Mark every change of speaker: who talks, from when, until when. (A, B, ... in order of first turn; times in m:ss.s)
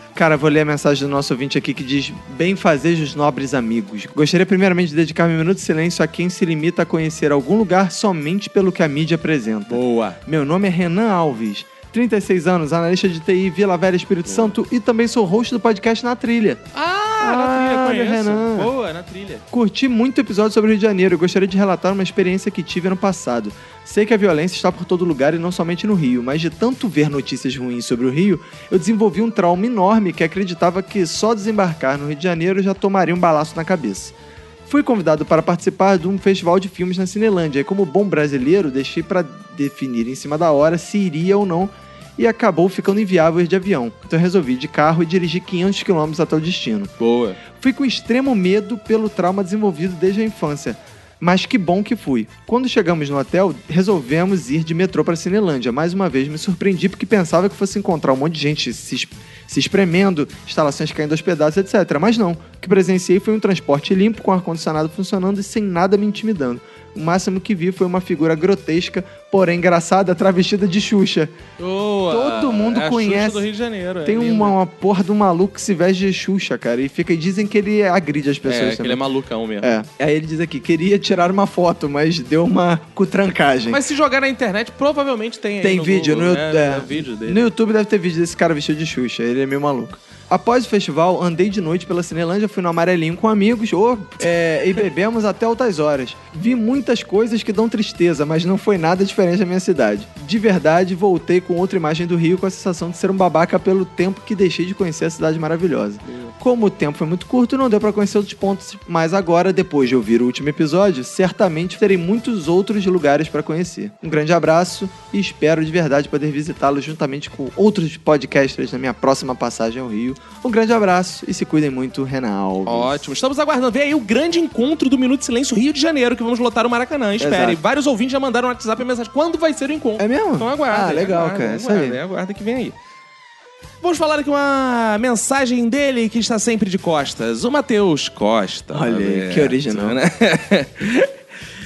0:00.2-0:16.6 A
0:09.7-0:10.2 B
0:14.3-0:14.5 B
0:16.7-0:19.4 B
0:17.2-0:18.7 A
0:19.5-0:34.1 A
0:34.7-0:46.9 A
0:47.0-0:47.4 B
0:47.6-1:11.4 A
1:11.6-1:14.6 B
1:12.1-1:13.5 A
1:14.0-1:19.0 A
1:18.5-1:19.7 B
1:19.6-1:23.8 A
1:23.7-1:27.5 B
1:25.6-2:03.0 A
2:02.7-2:12.8 B
2:07.2-2:07.6 A
2:10.0-2:12.0 A
2:13.8-2:21.1 B
2:18.7-2:20.0 A